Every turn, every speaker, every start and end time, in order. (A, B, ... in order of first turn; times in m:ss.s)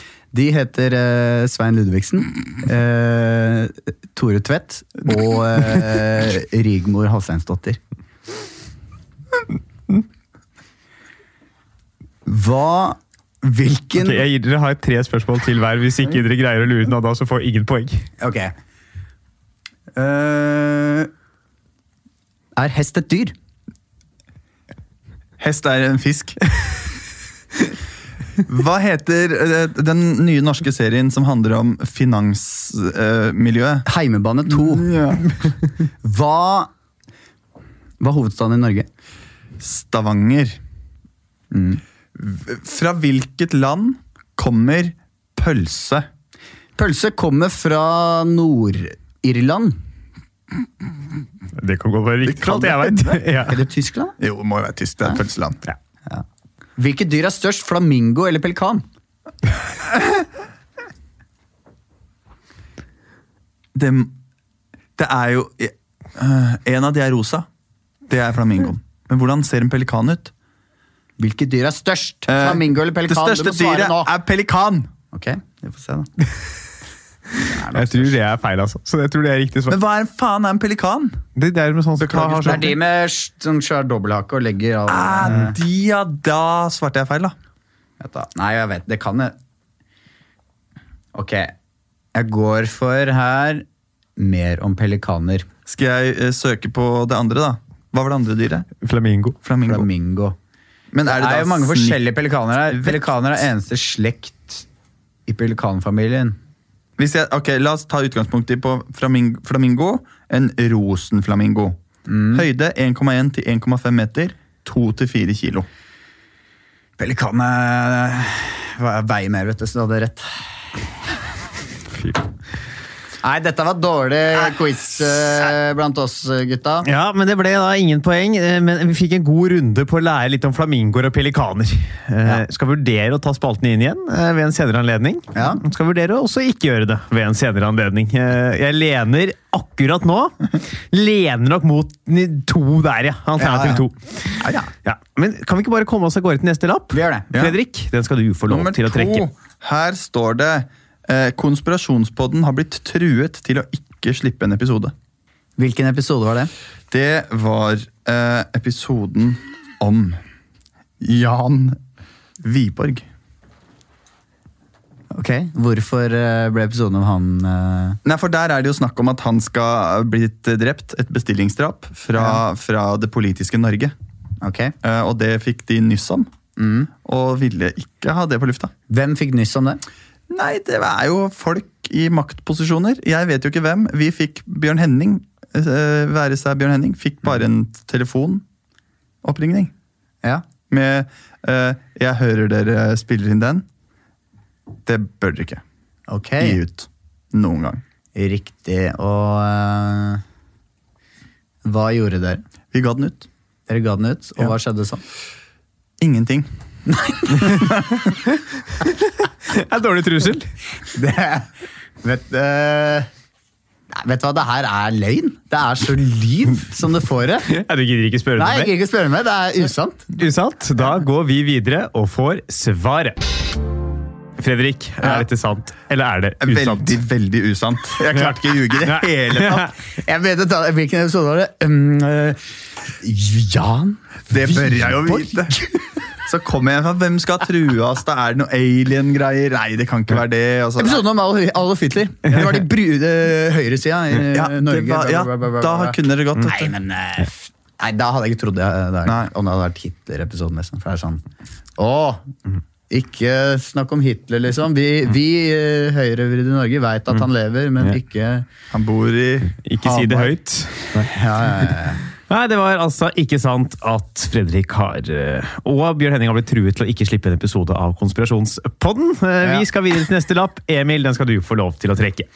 0:00.3-0:07.8 A
0:12.2-0:14.2 A
0:14.0-0:18.1 B
0:18.2-0:18.5 A
0:19.9-0:21.1 A
0:22.6-0:23.3 A
0:25.4-0:26.4 C
0:28.4-0:33.8 C
0:33.8-0:34.9 A
0:34.5-0:35.3 C
0:36.0-0:36.7 A
0:38.0-0:38.9 A
0:39.6-0:40.6 C
0:41.5-0:41.8 A
0:42.1-0:46.1 C
0:46.8-0:49.8 A
0:51.6-0:53.6 B
0:52.2-0:53.2 C
0:53.5-0:54.2 A
0:54.2-0:55.6 C
0:56.8-0:58.8 A
1:03.7-1:04.2 C
1:05.0-1:07.5 C
1:08.1-1:10.3 C
1:11.2-1:14.1 A
1:12.3-1:14.9 C
1:15.1-1:16.1 A
1:17.4-1:18.2 A
1:17.7-1:19.8 B
1:19.7-1:21.2 C
1:21.4-1:22.7 B
1:22.0-1:22.7 C
1:22.4-1:25.6 A
1:24.9-1:27.4 C
1:28.0-1:29.3 A
1:31.1-1:31.5 A
1:32.1-1:33.6 A
1:34.2-1:35.5 A
1:35.6-1:38.7 C
1:38.8-1:39.4 B
1:39.4-1:39.9 C
1:39.6-1:40.4 A
1:40.9-1:42.0 C
1:41.0-1:44.6 A
1:42.7-1:43.0 C
1:45.3-1:46.4 A
1:47.0-1:51.8 C
1:52.1-1:52.4 A
1:52.3-1:55.7 C
1:57.0-2:00.8 A
2:03.2-2:06.9 A
2:06.8-2:29.3 B
2:15.3-2:15.6 A
2:23.4-2:23.8 A
2:24.4-2:24.7 C
2:26.9-2:27.3 A
2:28.5-2:34.9 C
2:35.6-2:36.5 A
2:36.9-2:40.2 C
2:41.0-2:41.8 C
2:42.4-2:43.1 C
2:45.1-2:48.0 A
2:48.0-2:53.9 C
2:52.2-2:52.4 A
2:54.4-2:54.7 A
2:54.8-2:56.3 C
2:56.6-2:56.9 A
2:57.0-2:58.7 C
2:58.9-2:59.8 A
3:00.3-3:08.4 C
3:09.2-3:09.7 C
3:10.7-3:13.6 C
3:14.8-3:15.6 C
3:16.1-3:16.6 A
3:16.4-3:17.8 C
3:18.1-3:20.2 A
3:21.6-3:22.4 A
3:22.7-3:23.3 C
3:23.7-3:25.0 A
3:26.0-3:26.5 C
3:26.9-3:27.9 A
3:29.4-3:30.5 B
3:30.9-3:31.5 A
3:32.0-3:33.1 A
3:33.9-3:37.5 A
3:37.5-3:38.7 B
3:38.4-3:40.1 A
3:40.2-3:43.2 B
3:44.4-3:47.0 B
3:46.4-3:49.7 C
3:48.1-3:49.7 B
3:50.0-3:55.9 A
3:54.3-3:55.6 C
3:56.2-4:01.0 C
4:00.8-4:11.2 A
4:04.3-4:06.7 C
4:09.0-4:09.3 C
4:11.8-4:12.2 A
4:12.9-4:18.5 A
4:18.7-4:20.3 C
4:19.6-4:21.1 B
4:20.9-4:22.0 A
4:22.3-4:32.3 B